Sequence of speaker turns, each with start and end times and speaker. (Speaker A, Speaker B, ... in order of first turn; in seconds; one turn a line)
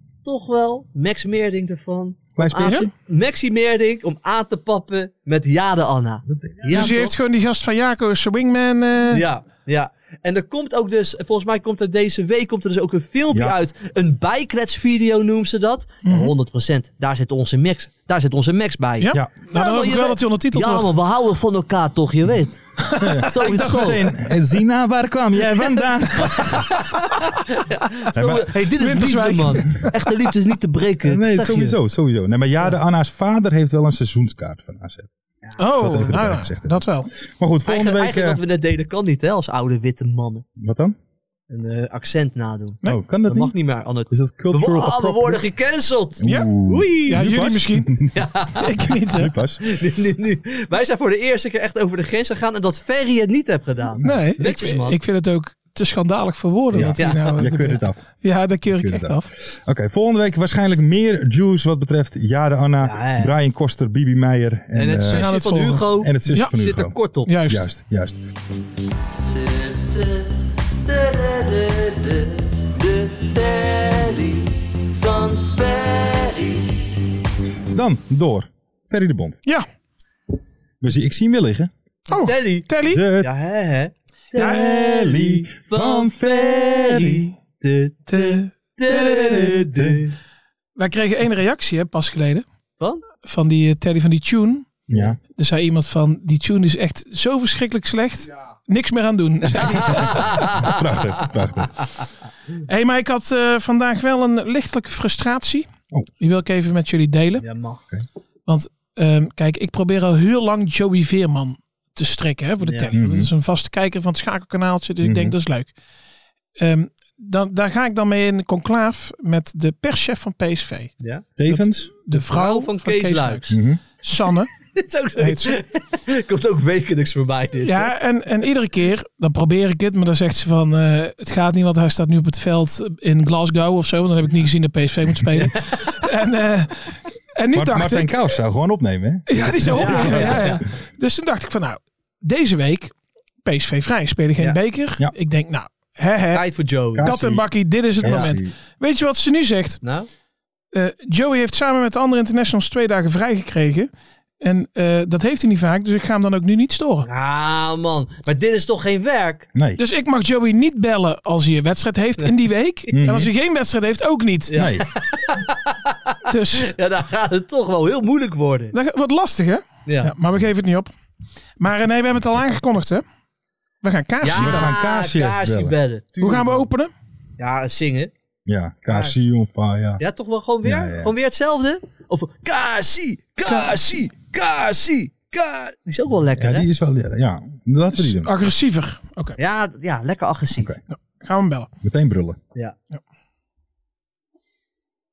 Speaker A: 0.2-7.2
Speaker B: 2.3-2.9
Speaker B: 6.3-6.9
Speaker C: 6.7-9.2
Speaker A: 9.1-22.6
Speaker C: 16.0-16.3
Speaker C: 19.0-20.9
Speaker C: 22.8-24.0
Speaker B: 23.0-26.8
Speaker A: 23.2-24.0
Speaker A: 26.1-31.8
Speaker B: 28.1-28.5
Speaker C: 28.8-30.0
Speaker B: 31.0-35.1
Speaker A: 35.4-35.7
Speaker C: 35.6-37.1
Speaker B: 35.8-38.4
Speaker A: 37.6-40.4
Speaker B: 40.6-41.0
Speaker A: 41.5-47.3
Speaker B: 42.8-43.5
Speaker B: 44.1-45.4
Speaker B: 46.2-48.1
Speaker C: 46.2-46.5
Speaker C: 47.1-48.0
Speaker A: 48.1-48.9
Speaker C: 48.6-49.3
Speaker B: 49.1-49.6
Speaker A: 49.6-55.0
Speaker C: 54.0-59.3
Speaker B: 56.7-58.0
Speaker A: 56.8-57.4
Speaker B: 58.8-65.3
Speaker A: 62.8-63.3
Speaker A: 64.7-67.3
Speaker C: 65.1-66.5
Speaker B: 66.0-67.0
Speaker C: 67.3-67.7
Speaker B: 67.5-68.2
Speaker A: 69.3-76.8
Speaker B: 77.7-79.4
Speaker B: 80.8-81.7
Speaker A: 82.1-82.7
Speaker C: 82.1-83.0
Speaker B: 82.9-83.3
Speaker A: 83.2-90.2
Speaker B: 84.3-87.3
Speaker C: 84.4-84.7
Speaker C: 88.1-89.6
Speaker C: 90.8-92.4
Speaker A: 92.8-93.0
Speaker C: 93.2-100.7
Speaker A: 94.9-95.2
Speaker B: 94.9-95.2
Speaker A: 99.6-100.8
Speaker B: 100.0-101.7
Speaker C: 102.7-105.7
Speaker C: 106.2-107.4
Speaker A: 107.4-107.9
Speaker C: 108.5-115.7
Speaker A: 112.6-112.9
Speaker B: 112.9-113.3
Speaker B: 115.0-115.4
Speaker C: 116.6-120.9
Speaker A: 121.0-121.2
Speaker B: 121.4-121.9
Speaker C: 121.5-124.5
Speaker A: 122.1-123.5
Speaker B: 123.5-123.8
Speaker A: 124.7-127.9
Speaker C: 125.2-125.6
Speaker C: 127.6-138.1
Speaker B: 137.5-140.5
Speaker C: 139.3-146.5
Speaker A: 139.7-140.6
Speaker A: 146.3-147.2
Speaker B: 146.9-147.5
Speaker C: 147.0-149.8
Speaker B: 148.0-148.5
Speaker A: 148.0-148.3
Speaker A: 149.8-150.1
Speaker C: 150.7-153.9
Speaker C: 154.4-157.1
Speaker A: 157.0-159.5
Speaker B: 159.5-159.8
Speaker C: 159.8-164.6
Speaker B: 162.9-163.3
Speaker A: 164.5-168.8
Speaker B: 164.5-164.8
Speaker C: 166.3-166.7
Speaker C: 168.7-170.9
Speaker A: 169.9-170.1
Speaker C: 171.6-173.0
Speaker C: 173.8-174.7
Speaker A: 174.2-176.7
Speaker B: 174.4-175.8
Speaker C: 176.2-176.9
Speaker A: 177.4-178.1
Speaker B: 178.4-180.0
Speaker A: 178.9-179.1
Speaker A: 180.0-186.7
Speaker B: 180.6-181.1
Speaker C: 183.4-183.7
Speaker B: 186.4-188.4
Speaker C: 187.9-189.4
Speaker A: 189.4-190.7
Speaker B: 190.5-190.8
Speaker C: 190.9-191.7
Speaker B: 191.8-192.4